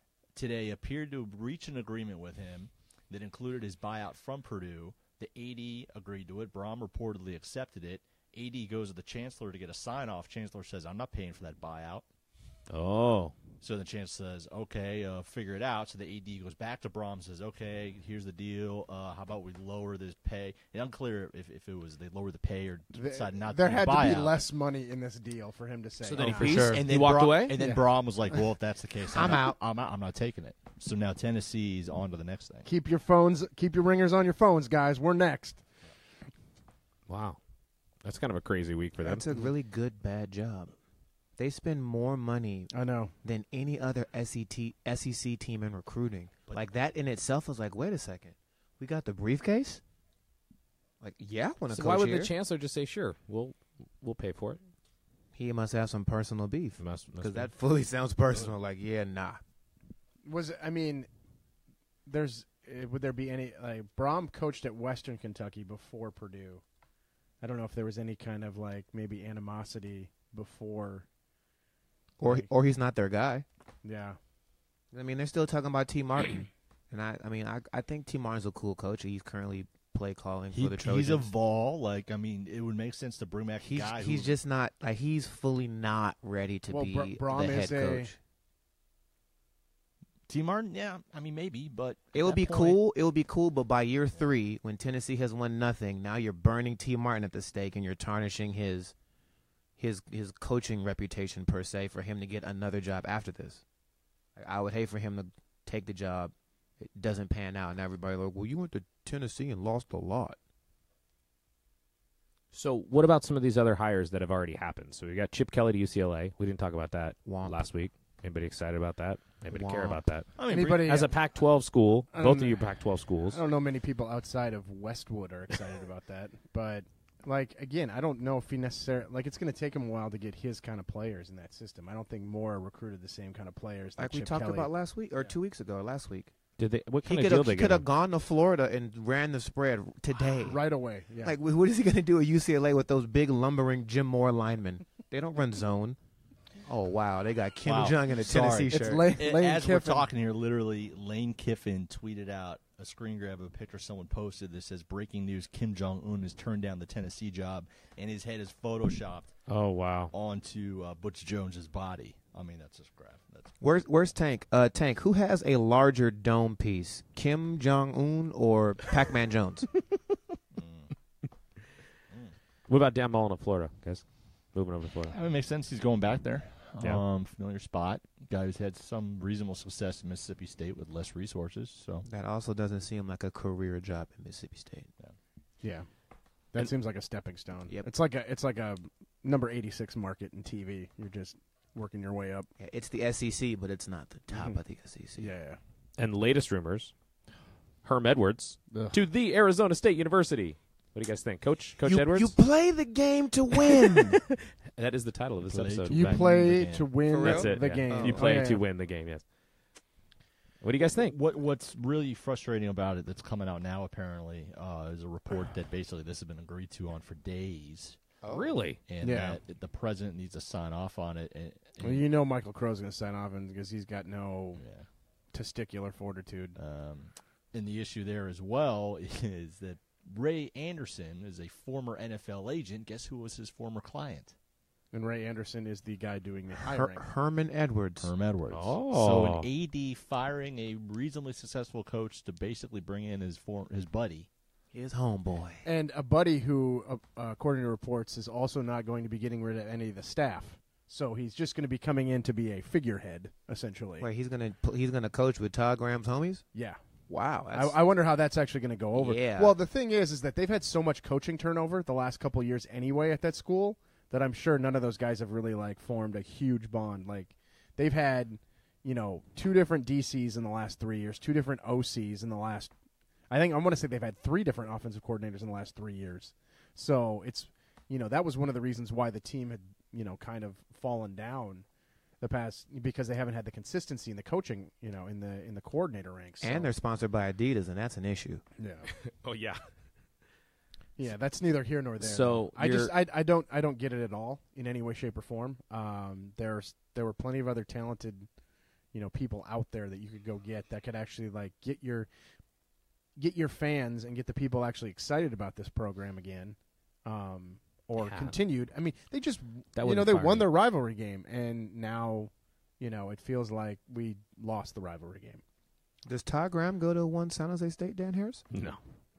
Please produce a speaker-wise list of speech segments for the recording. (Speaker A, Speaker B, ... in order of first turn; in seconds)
Speaker A: 0.3-12.1, 13.6-24.4, 26.4-32.7, 80.5-84.3, 90.3-92.8, 120.4-121.1, 147.7-159.3, 160.1-163.5, 170.6-170.9, 175.1-182.1, 205.4-206.9, 210.9-218.0, 218.9-222.1, 224.6-224.9, 226.6-234.3, 238.0-244.3
Speaker B: 12.7-13.3, 26.0-27.6, 37.1-37.4, 38.0-39.3, 51.7-54.6, 56.8-57.5, 112.5-120.3, 120.8-123.4, 136.6-137.8, 159.5-160.1, 172.7-175.2, 196.0-196.9, 197.8-202.3, 203.7-206.2, 207.2-209.2, 210.6-211.2, 218.3-218.8, 238.5-239.5, 289.1-289.6, 292.0-292.9, 308.0-308.4, 309.8-310.5, 318.5-318.8
Speaker C: 22.9-26.6, 27.6-27.8, 32.7-35.6, 42.7-43.1, 60.2-61.1, 62.1-66.6, 67.4-71.1, 73.8-74.2, 86.7-88.1, 120.5-121.1, 122.1-122.6, 123.3-135.3, 140.4-141.3, 148.7-150.1, 185.6-185.9, 186.5-192.5, 195.2-195.6, 198.7-199.0, 205.9-208.6, 219.0-219.4, 221.8-224.6, 225.3-226.6, 234.9-237.0, 245.7-254.1, 256.5-256.8, 257.5-272.7, 273.3-281.6, 282.2-286.7, 288.6-288.9, 291.0-298.3, 298.9-302.1, 303.2-315.4
Speaker D: 26.2-26.8, 29.1-29.6, 39.0-40.7, 41.4-42.7, 43.2-49.8, 51.0-52.3, 55.4-59.4, 72.2-73.5, 74.9-81.3, 83.6-88.2, 92.1-98.9, 99.8-103.6, 104.4-110.4, 117.2-117.6, 119.5-120.0, 134.0-136.3, 137.1-140.6, 141.2-146.0, 146.6-149.1, 163.6-169.7, 182.1-184.9, 192.6-195.3, 201.8-204.2, 207.1-208.3, 218.2-218.6, 236.6-238.1, 244.7-245.7, 254.0-256.4, 257.1-257.8, 258.9-259.6, 286.4-288.4, 316.1-318.4